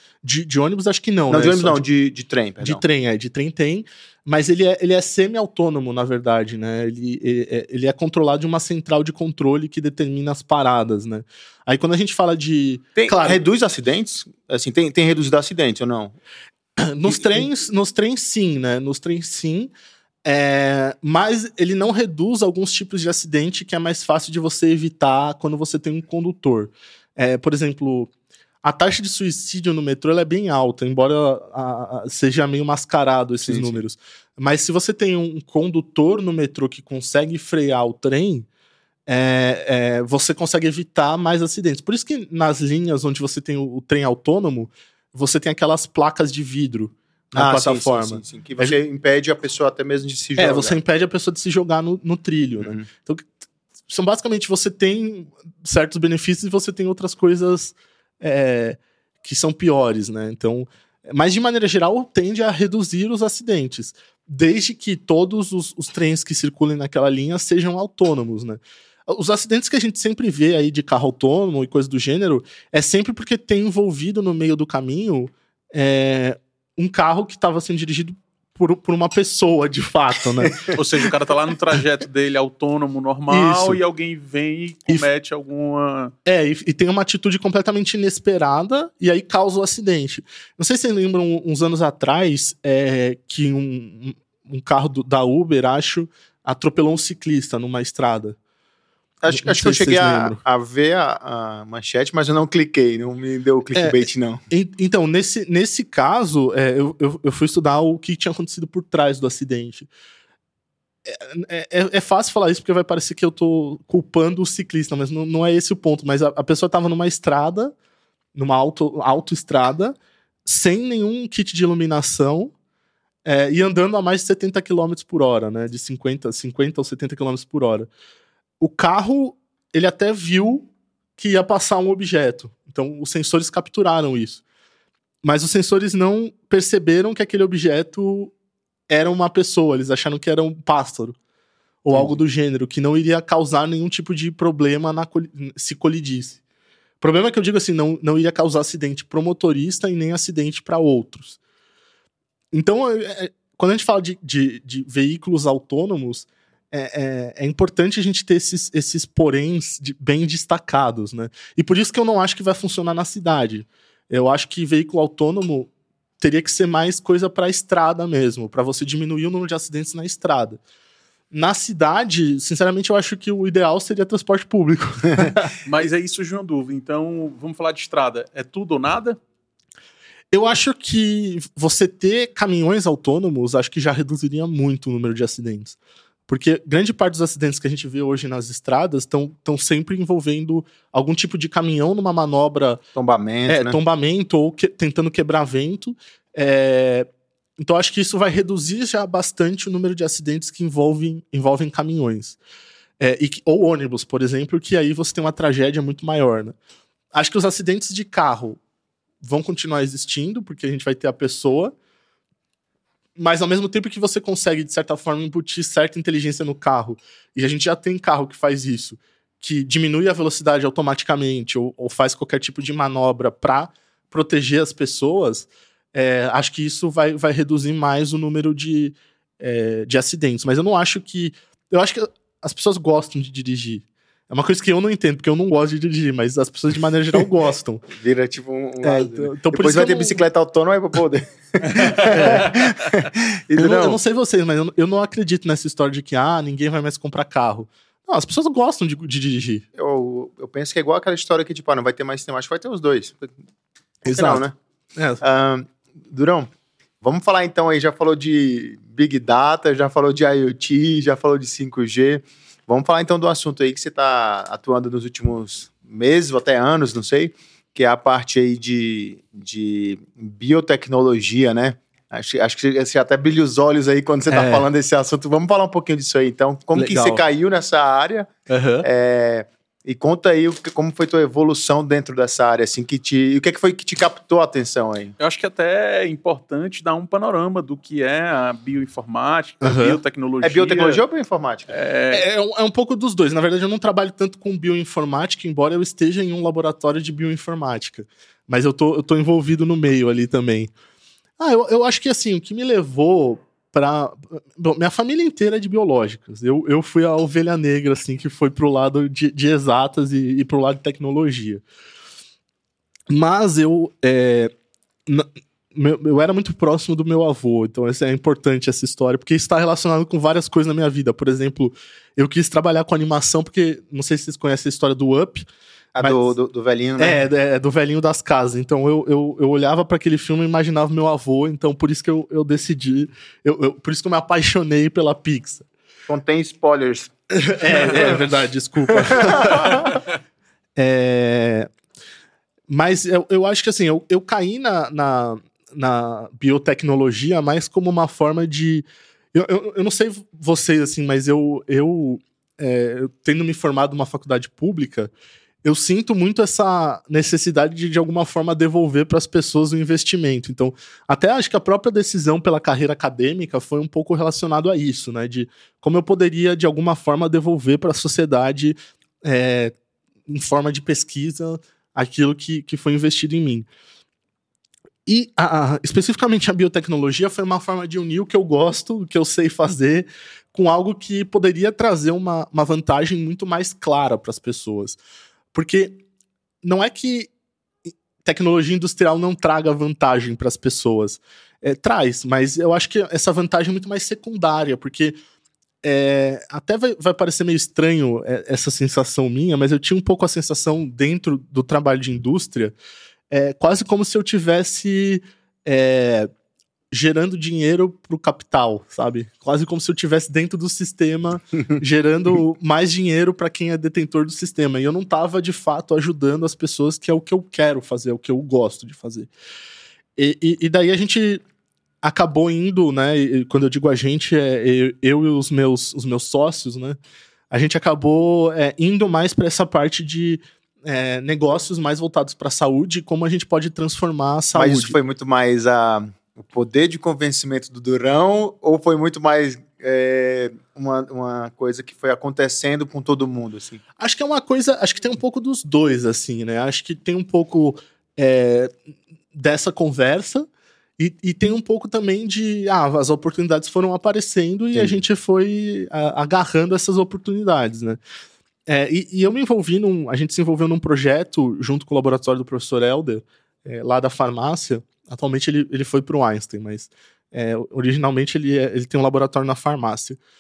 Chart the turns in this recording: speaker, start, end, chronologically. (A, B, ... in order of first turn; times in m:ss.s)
0:00.2-0:01.8 A
0:01.3-0:02.8 B
0:02.6-0:13.4 A
0:13.0-0:16.2 B
0:16.8-0:19.7 A
0:17.1-0:17.5 B
0:20.2-0:28.1 A
0:28.6-0:38.5 A
0:33.4-0:33.8 B
0:39.1-0:48.8 A
0:47.4-0:50.8 B
0:50.4-0:53.3 A
0:53.9-1:20.7 A
1:20.7-1:26.1 C
1:23.3-1:23.8 A
1:26.2-1:38.4 A
1:39.2-1:44.4 B
1:39.3-1:40.4 A
1:44.5-1:49.9 A
1:51.1-1:57.7 A
1:58.4-2:02.5 A
2:03.2-2:07.9 A
2:08.6-2:14.4 A
2:15.2-2:18.3 A
2:18.9-2:21.2 A
2:21.8-2:26.4 A
2:21.9-2:22.2 B
2:27.0-2:31.4 A
2:32.5-2:50.6 A
2:51.3-2:55.5 A
2:55.6-2:59.2 C
3:00.3-3:05.8 A
3:06.3-3:12.8 A
3:13.0-3:13.8 B
3:13.5-3:17.1 A
3:17.6-3:22.4 A
3:23.0-3:26.6 A
3:27.1-3:28.6 A
3:29.2-3:31.7 A
3:33.2-3:57.9 A
3:57.9-4:04.0 B
3:58.8-4:00.2 A
4:01.6-4:02.7 C
4:02.1-4:02.5 A
4:03.6-4:09.6 A
4:09.8-4:13.3 B
4:14.1-4:14.4 A
4:14.1-4:14.5 B
4:15.0-4:15.2 A
4:15.2-4:16.5 B
4:17.0-4:38.3 B
4:34.3-4:34.7 A
4:36.8-4:37.2 A
4:38.5-4:38.9 A
4:38.8-4:45.2 B
4:45.2-4:51.0 C
4:49.6-4:50.0 A
4:50.4-4:51.7 B
4:51.7-4:52.2 C
4:52.1-5:00.7 A
5:01.4-5:11.6 A
5:13.1-5:14.5 A
5:15.1-5:25.5 A
5:26.0-5:27.2 B
5:26.0-5:26.3 A
5:27.0-5:35.7 A
5:36.1-5:38.2 B
5:37.3-5:39.9 A
5:39.0-5:39.8 B
5:39.7-5:40.0 C
5:40.8-5:41.7 A
5:42.7-5:55.1 A
5:55.6-6:09.7 A
6:10.3-6:13.7 A
6:15.1-6:25.0 A
6:25.5-6:26.0 A
6:26.6-6:27.3 A
6:28.2-6:35.2 A
6:35.8-6:42.8 A
6:43.3-6:46.3 A
6:46.9-6:59.3 A
7:00.2-7:01.4 A
7:02.0-7:07.0 A
7:07.5-7:15.0 A
7:14.5-7:23.8 B
7:24.0-7:28.7 A
7:29.3-7:38.0 A
7:34.7-7:35.0 B
7:38.7-7:50.2 A